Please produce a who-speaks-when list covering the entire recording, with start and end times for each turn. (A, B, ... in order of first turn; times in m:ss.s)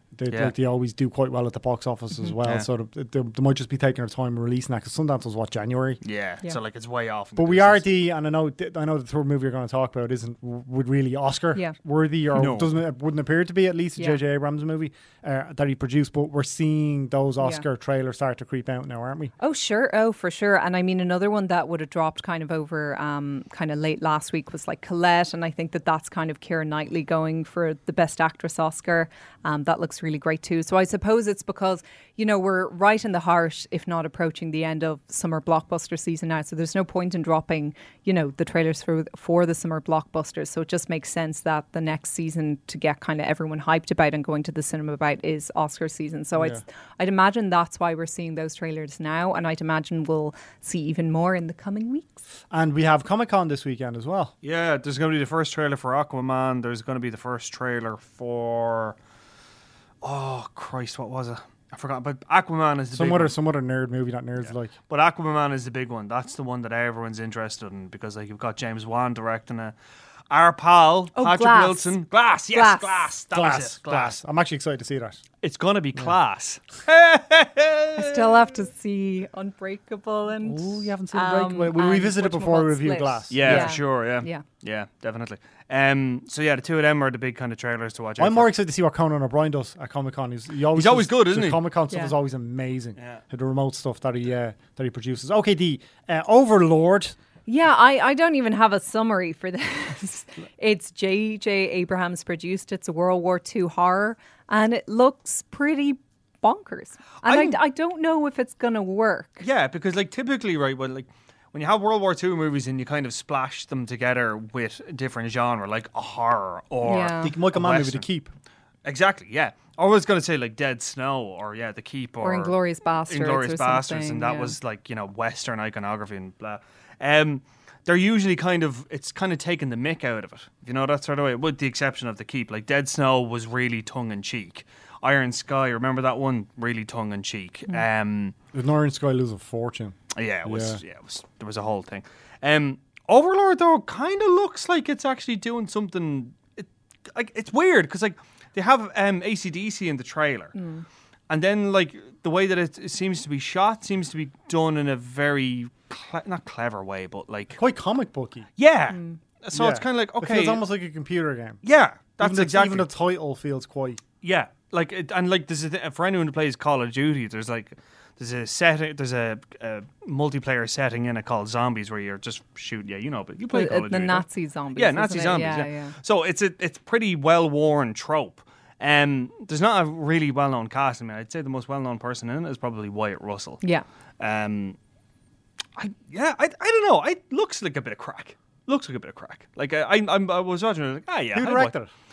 0:00.2-0:06.0 A
0:06.0-0:07.8 B
0:07.4-0:19.3 A
0:12.3-0:12.7 B
0:19.4-0:52.2 C
0:52.5-0:54.3 A
0:54.4-0:59.0 B
1:00.0-1:03.3 B
1:02.9-1:04.7 A
1:04.9-1:09.7 B
1:10.3-1:14.2 B
1:11.1-1:12.0 C
1:12.5-1:13.1 C
1:13.3-1:15.2 A
1:15.4-1:18.5 B
1:18.0-1:24.4 C
1:20.4-1:23.8 A
1:23.3-1:28.5 B
1:28.2-1:37.2 A
1:30.7-1:31.6 B
1:37.4-1:49.4 C
1:47.2-1:47.6 B
1:49.4-1:58.0 B
1:56.8-1:57.3 C
1:57.2-1:58.3 A
1:58.8-2:02.6 B
2:02.2-2:04.6 C
2:03.1-2:18.3 B
2:18.5-2:20.8 A
2:20.1-2:30.5 B
2:30.5-2:30.8 C
2:31.3-2:37.6 B
2:37.6-2:38.5 A
2:38.6-2:40.6 B
2:38.9-2:39.2 C
2:39.5-2:41.6 A
2:41.6-2:42.9 B
2:42.2-2:44.0 A
2:44.2-3:03.6 B
2:53.5-2:55.9 C
3:04.2-3:04.8 B
3:05.8-3:11.7 B
3:11.3-3:11.9 A